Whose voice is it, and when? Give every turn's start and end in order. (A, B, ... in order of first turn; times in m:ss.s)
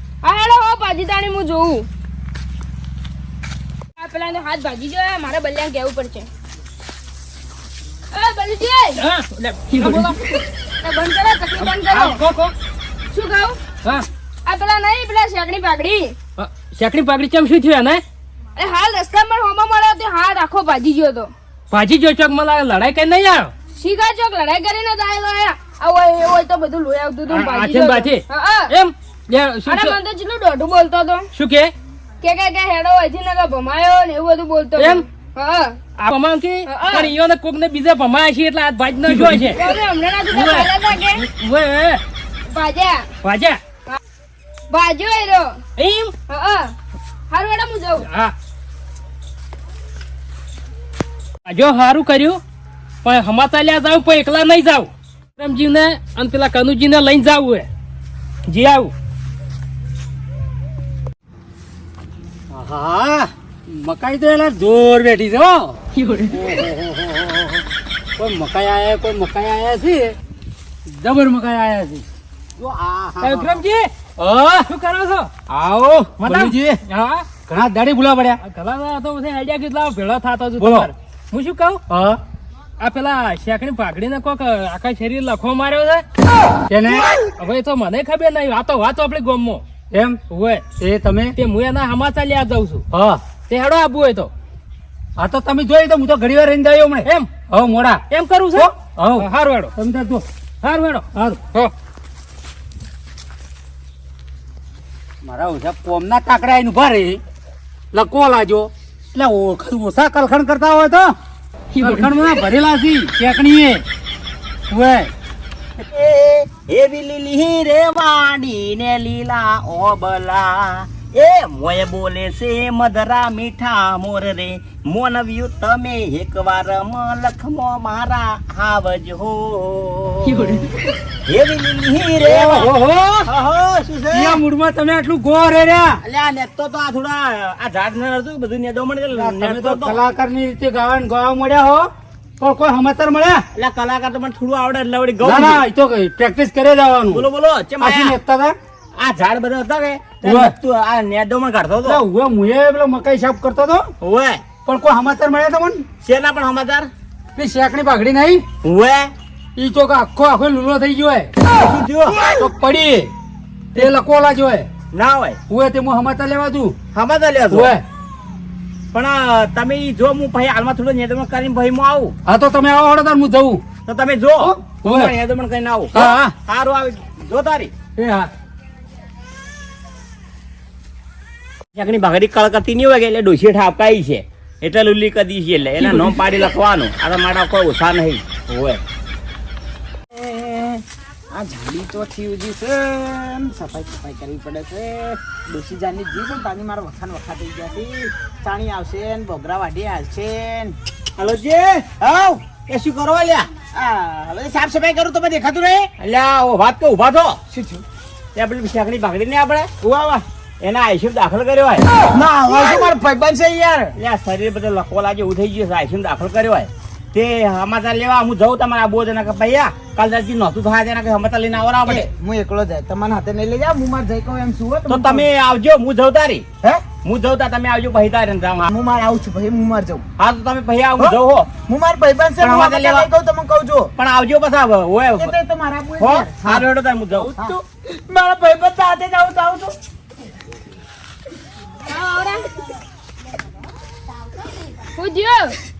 0:00.2-0:01.9 A
0:04.0-0:06.3 A
0:08.1-0:09.0 A
0:09.0-0:10.2 B
0:09.7-0:12.2 A
0:11.6-0:12.5 B
0:13.1-0:13.6 A
0:14.5-0:16.2 A
0:16.4-0:18.0 B
0:18.6-0:21.3 A
0:21.7-0:23.5 B
0:23.7-0:28.7 A
0:27.3-0:30.0 B
0:29.6-0:31.3 A
0:31.4-0:31.7 B
0:32.2-0:35.8 A
0:34.8-0:35.0 B
0:36.0-0:39.6 B
0:36.6-0:37.1 A
0:39.4-0:41.2 A
0:40.3-0:42.0 B
0:42.5-0:43.1 A
0:43.2-0:43.6 B
0:44.7-0:45.6 A
0:45.8-0:46.1 B
0:46.3-0:46.7 A
0:47.3-0:48.1 A
0:48.0-0:48.3 B
0:51.5-0:52.4 B
0:53.0-0:57.7 B
0:58.5-0:58.9 B
1:02.5-1:05.8 C
1:06.0-1:06.3 B
1:06.3-1:07.6 C
1:08.2-1:10.2 C
1:10.9-1:12.0 C
1:12.6-1:13.6 C
1:13.2-1:13.9 B
1:14.2-1:14.7 C
1:14.6-1:15.3 B
1:15.5-1:16.8 C
1:16.2-1:17.3 B
1:17.4-1:18.4 C
1:18.4-1:21.8 B
1:20.6-1:20.9 C
1:21.9-1:22.2 C
1:22.8-1:26.0 B
1:26.7-1:27.1 C
1:27.4-1:29.6 B
1:29.9-1:30.2 C
1:30.3-1:30.7 B
1:30.7-1:31.4 C
1:31.4-1:32.8 B
1:32.9-1:33.3 C
1:33.4-1:34.3 B
1:35.2-1:38.0 C
1:37.0-1:37.3 B
1:38.1-1:39.7 B
1:38.5-1:40.2 C
1:40.6-1:41.1 B
1:41.1-1:41.7 C
1:45.2-1:47.2 C
1:47.9-1:51.1 C
1:51.8-1:52.1 B
1:51.8-1:53.8 C
1:54.7-1:55.1 C
1:55.9-2:10.6 D
2:11.3-2:12.7 D
2:12.2-2:13.3 C
2:13.3-2:14.4 D
2:14.1-2:16.0 C
2:16.0-2:20.0 D
2:19.1-2:21.9 C
2:22.4-2:23.4 C
2:23.5-2:25.7 D
2:25.2-2:27.2 C
2:27.1-2:28.2 D
2:27.8-2:28.6 C
2:29.0-2:32.0 D
2:30.2-2:30.6 C
2:31.8-2:33.9 C
2:34.0-2:34.4 D
2:34.7-2:35.8 C
2:36.0-2:36.9 D
2:37.4-2:38.4 C
2:38.6-2:39.1 D
2:39.6-2:41.3 C
2:41.6-2:42.2 D
2:42.3-2:43.1 C
2:43.7-2:44.7 C
2:44.9-2:45.4 D
2:45.5-2:46.8 C
2:46.9-2:47.8 D
2:47.5-2:47.8 C
2:48.9-2:52.2 D
2:52.3-2:53.6 C
2:53.9-2:57.7 D
2:54.4-2:55.1 C
2:55.9-2:56.3 C
2:58.0-2:58.3 C
3:01.8-3:08.8 D
3:10.1-3:20.8 E
3:21.2-3:21.9 D
3:22.0-3:22.4 E
3:22.5-3:23.5 D
3:23.7-3:25.9 E
3:26.0-3:27.4 D
3:27.5-3:27.8 E
3:28.4-3:29.7 D
3:29.8-3:30.2 E
3:30.6-3:31.8 D
3:32.1-3:33.9 E
3:33.9-3:42.1 D
3:41.8-3:45.3 E
3:44.9-3:46.4 D
3:47.0-3:48.7 D
3:48.7-3:50.1 E
3:50.2-3:51.5 D
3:51.0-3:53.9 E
3:52.4-3:53.1 D
3:54.0-3:55.3 D
3:55.2-3:59.7 E
3:56.0-3:57.5 D
4:01.9-4:02.5 A
4:05.0-4:05.6 A